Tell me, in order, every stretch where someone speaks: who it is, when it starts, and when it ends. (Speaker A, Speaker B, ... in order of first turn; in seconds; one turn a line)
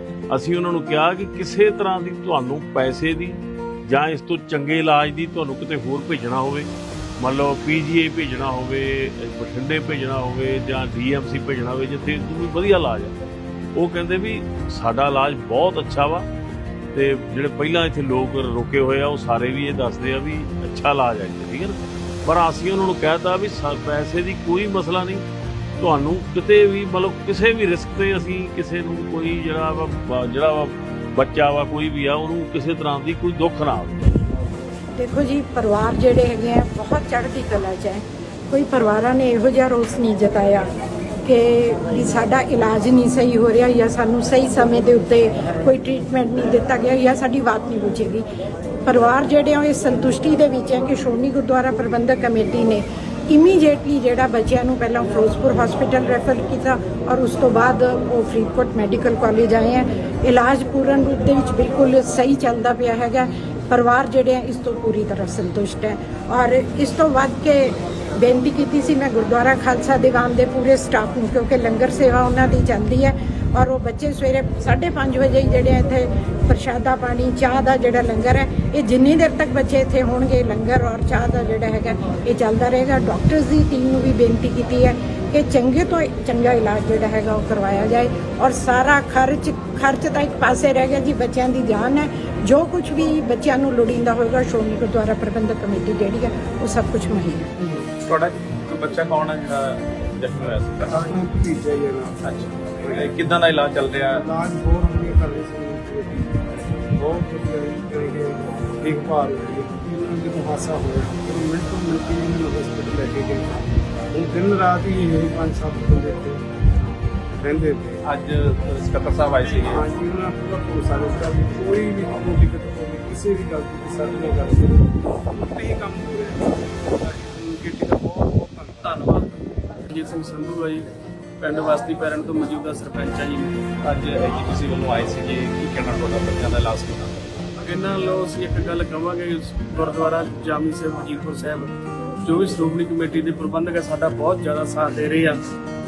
Speaker A: 0.3-6.7
Speaker A: 7.2-13.2
Speaker A: 13.8-16.3
Speaker A: 16.9-25.2
Speaker A: 25.8-34.2
Speaker B: 35.0-40.7
Speaker B: 41.2-48.3
Speaker B: 48.9-97.5
Speaker C: 98.0-100.9
Speaker D: 100.9-103.2
Speaker C: 102.2-104.2
Speaker D: 104.1-106.3
Speaker D: 106.9-113.6
Speaker D: 114.1-116.4
Speaker D: 117.4-118.0
Speaker C: 118.1-119.8
Speaker D: 119.6-128.9
Speaker E: 128.8-130.9
Speaker E: 131.4-133.6
Speaker C: 133.8-137.3
Speaker E: 137.6-145.5